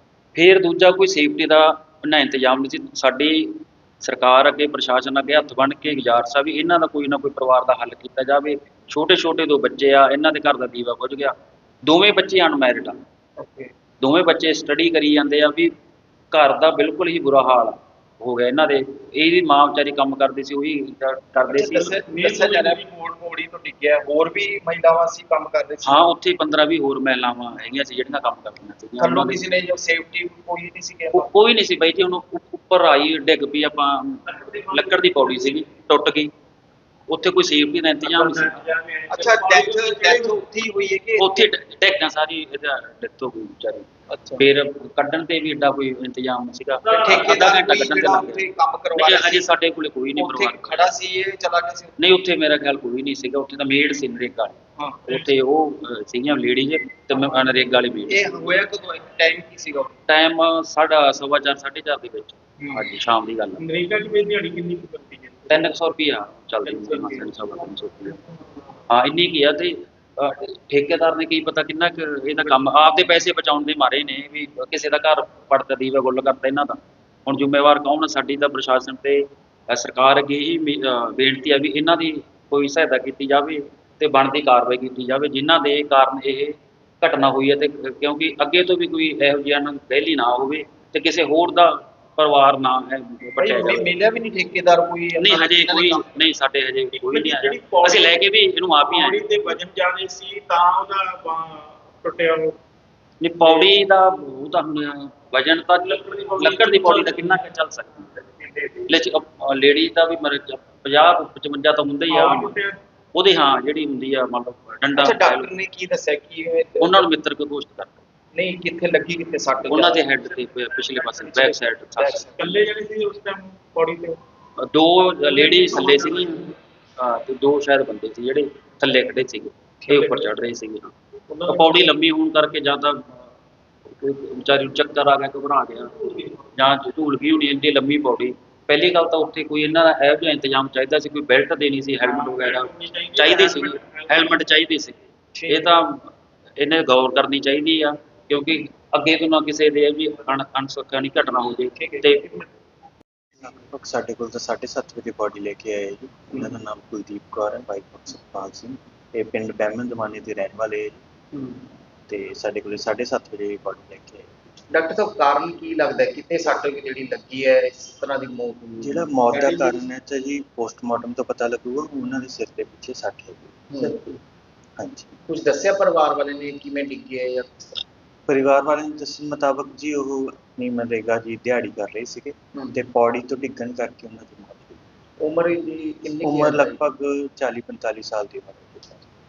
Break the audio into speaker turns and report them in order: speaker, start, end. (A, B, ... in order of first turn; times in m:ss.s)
0:00.3-0:13.0 A
0:13.4-0:13.7 B
0:14.0-0:15.7 A
0:16.3-0:22.0 A
0:21.5-0:26.1 B
0:21.8-0:22.9 C
0:25.8-0:29.4 A
0:29.0-0:31.3 B
0:31.1-0:36.3 A
0:34.4-0:35.4 C
0:37.1-0:38.6 A
0:38.0-0:40.4 C
0:39.1-0:41.3 B
0:41.2-0:48.4 A
0:44.1-0:44.4 B
0:46.8-0:47.2 C
0:47.0-0:49.5 B
0:48.9-0:50.8 A
0:50.2-0:51.9 B
0:52.0-0:54.6 A
0:54.8-0:55.3 B
0:55.1-0:58.2 A
0:58.1-1:00.0 B
1:00.1-1:03.6 A
1:03.6-1:05.7 C
1:05.5-1:08.1 A
1:06.6-1:07.2 C
1:08.9-1:33.9 A
1:33.4-1:36.0 B
1:35.2-1:39.2 A
1:36.9-1:38.2 C
1:38.9-1:42.6 C
1:43.2-1:48.0 A
1:46.0-1:47.4 C
1:48.4-1:48.8 C
1:48.9-1:52.5 A
1:52.1-1:52.8 C
1:53.1-1:55.5 A
1:55.0-1:57.0 B
1:56.8-1:58.0 A
1:58.3-2:00.1 B
1:59.7-2:02.3 A
2:00.8-2:01.5 C
2:02.0-2:02.6 B
2:02.4-2:04.2 C
2:04.7-2:10.9 A
2:05.0-2:06.4 C
2:09.8-2:10.3 C
2:11.3-2:11.9 C
2:11.5-2:13.1 A
2:14.0-2:15.9 A
2:16.5-2:25.0 A
2:22.0-2:24.4 C
2:25.3-2:25.7 B
2:25.5-2:26.0 A
2:26.6-2:32.4 A
2:31.8-2:32.2 B
2:33.4-2:41.0 D
2:42.1-2:44.3 D
2:44.7-2:49.7 B
2:48.8-2:54.1 D
2:53.7-2:54.0 B
2:54.8-2:55.1 D
2:55.3-2:57.6 B
2:58.3-3:04.8 D
3:05.2-3:06.8 B
3:06.2-3:09.0 D